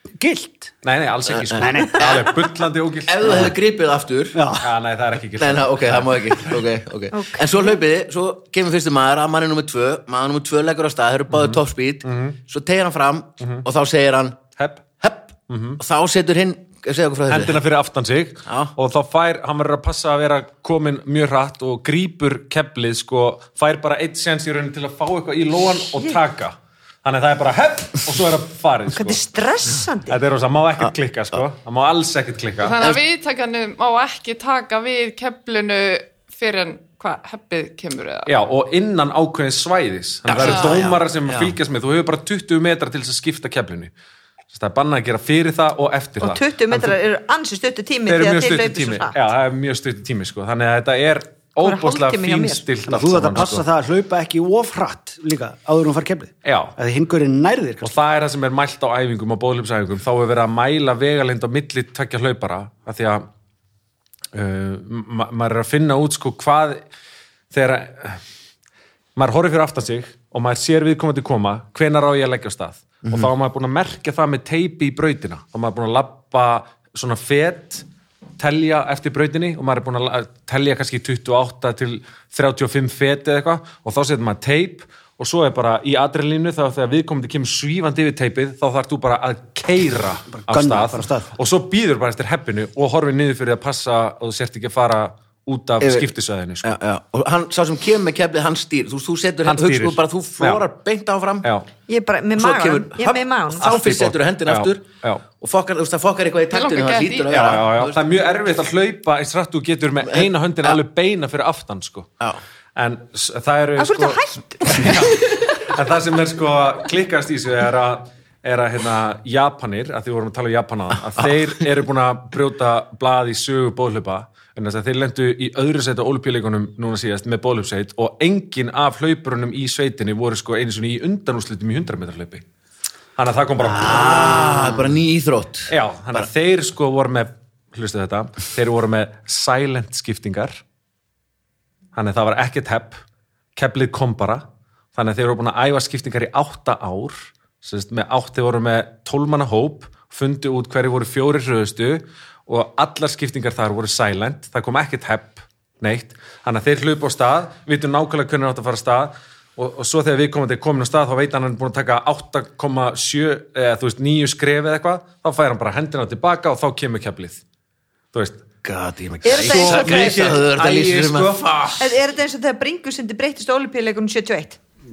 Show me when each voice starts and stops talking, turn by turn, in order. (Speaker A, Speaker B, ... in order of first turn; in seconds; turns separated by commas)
Speaker A: 0.2-0.7, Speaker B: 0.8-3.5, Speaker C: 1.3-2.4, Speaker A: 1.6-2.0, Speaker C: 3.1-4.4, Speaker A: 4.3-4.7, Speaker B: 4.6-6.6, Speaker C: 5.4-14.4, Speaker D: 7.1-7.8, Speaker B: 11.3-12.4, Speaker B: 14.6-14.8, Speaker C: 15.0-17.6, Speaker B: 15.5-15.8, Speaker B: 17.3-29.2, Speaker C: 18.5-18.7, Speaker D: 28.9-30.2, Speaker B: 30.1-32.8, Speaker E: 32.6-38.3, Speaker B: 38.3-43.9, Speaker C: 40.2-41.5, Speaker E: 40.4-40.8, Speaker B: 44.5-47.0, Speaker D: 46.2-49.1, Speaker B: 48.0-53.6, Speaker D: 51.6-52.6, Speaker A: 52.9-57.9, Speaker B: 56.4-56.8, Speaker B: 57.8-63.3, Speaker B: 64.3-66.8, Speaker B: 67.5-68.2, Speaker B: 69.2-77.8, Speaker B: 78.4-96.7, Speaker A: 90.3-91.3, Speaker C: 95.8-96.1, Speaker C: 96.6-101.5, Speaker B: 99.4-100.6, Speaker B: 101.4-101.7, Speaker D: 101.9-103.8, Speaker C: 102.4-104.8, Speaker B: 103.6-105.2, Speaker C: 105.3-108.0, Speaker E: 106.5-107.4, Speaker B: 107.3-112.1, Speaker C: 110.1-110.8, Speaker B: 112.8-132.4, Speaker D: 113.8-115.3, Speaker B: 133.2-134.8, Speaker A: 133.6-134.9, Speaker C: 133.8-136.3, Speaker B: 135.7-140.6, Speaker B: 141.9-143.0, Speaker B: 143.6-144.4, Speaker B: 144.9-167.4, Speaker B: 168.1-168.4, Speaker C: 168.6-171.8, Speaker D: 169.2-170.3, Speaker B: 169.3-171.8, Speaker D: 171.8-174.6